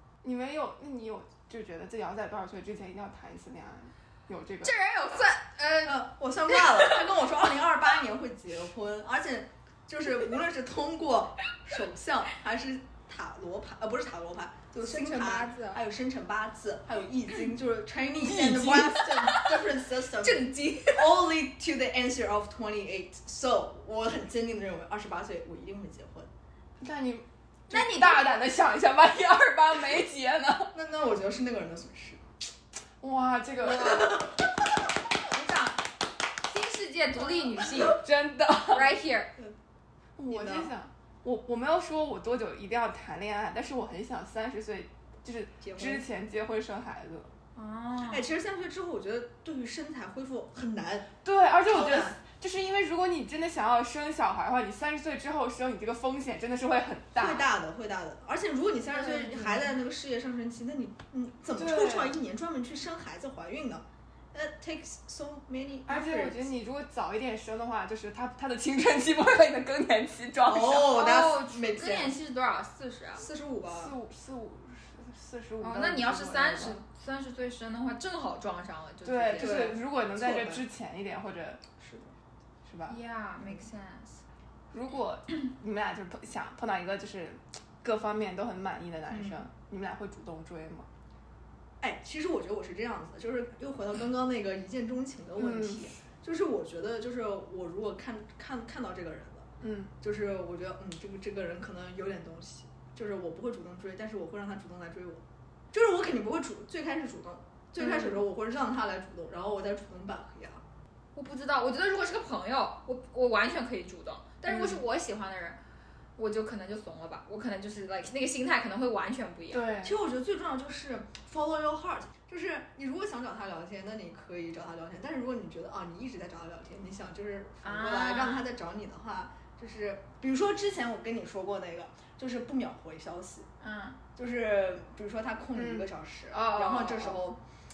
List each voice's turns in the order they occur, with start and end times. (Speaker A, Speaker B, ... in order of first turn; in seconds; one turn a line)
Speaker A: 0.2-4.7
Speaker B: 4.6-7.0
Speaker C: 5.8-26.3
Speaker B: 14.8-15.8
Speaker A: 18.2-19.3
Speaker B: 19.3-19.6
Speaker B: 20.2-21.1
Speaker A: 26.8-30.7
Speaker B: 27.7-28.4
Speaker C: 30.7-32.2
Speaker A: 33.0-34.3
Speaker B: 33.7-34.2
Speaker C: 33.8-34.3
Speaker B: 35.2-35.9
Speaker B: 36.4-38.0
Speaker C: 37.6-37.9
Speaker A: 37.9-38.9
Speaker B: 38.7-39.3
Speaker A: 40.2-47.3
Speaker C: 40.3-40.7
Speaker C: 45.6-46.0
Speaker B: 47.5-48.3
Speaker C: 48.1-51.1
Speaker A: 51.2-57.5
Speaker C: 51.6-52.2
Speaker C: 57.1-66.5
Speaker A: 59.0-59.6
Speaker A: 61.5-62.2
Speaker A: 65.9-70.9
Speaker C: 70.5-72.2
Speaker B: 70.8-73.3
Speaker C: 73.2-73.9
Speaker A: 73.7-76.8
Speaker B: 75.6-79.8
Speaker A: 79.0-81.6
Speaker C: 79.4-80.6
Speaker C: 81.8-82.1
Speaker A: 82.6-83.0
Speaker B: 82.9-84.2
Speaker A: 84.7-90.9
Speaker C: 89.1-89.5
Speaker C: 91.8-99.5
Speaker A: 95.4-95.9
Speaker A: 99.6-99.9
Speaker C: 100.0-110.6
Speaker B: 111.2-115.6
Speaker A: 114.5-114.8
Speaker B: 116.2-119.7
Speaker A: 119.5-120.0
Speaker C: 119.8-133.5
Speaker B: 127.6-128.4
Speaker B: 133.6-134.0
Speaker C: 134.2-137.4
Speaker A: 135.6-135.9
Speaker B: 136.3-137.2